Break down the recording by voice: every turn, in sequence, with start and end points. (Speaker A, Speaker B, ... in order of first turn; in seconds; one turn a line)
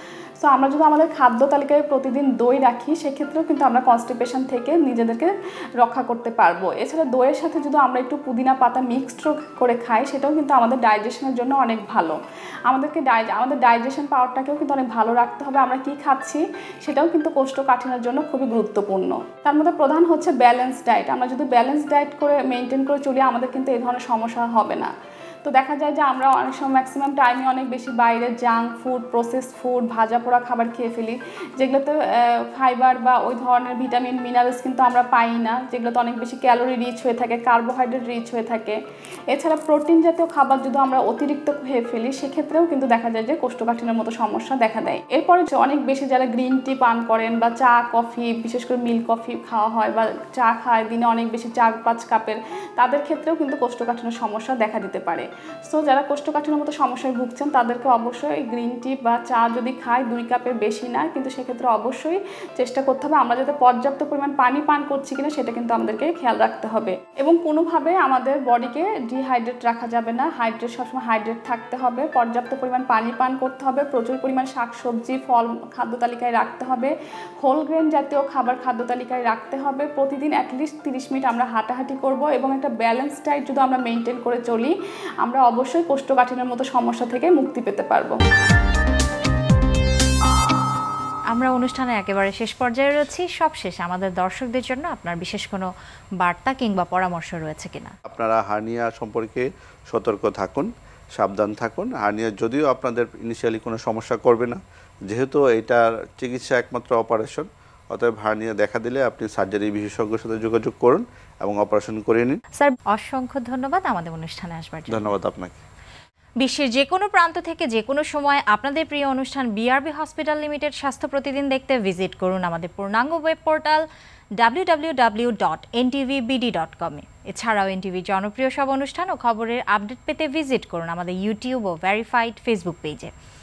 Speaker A: 0.4-12.2
Speaker A: 12.7-24.9
Speaker A: 25.4-38.8
Speaker A: 39.3-88.2
Speaker B: 91.3-97.9
Speaker C: 98.1-112.4
Speaker B: 112.6-115.1
Speaker C: 114.9-115.6
Speaker B: 116.4-123.8
Speaker B: 124.4-133.1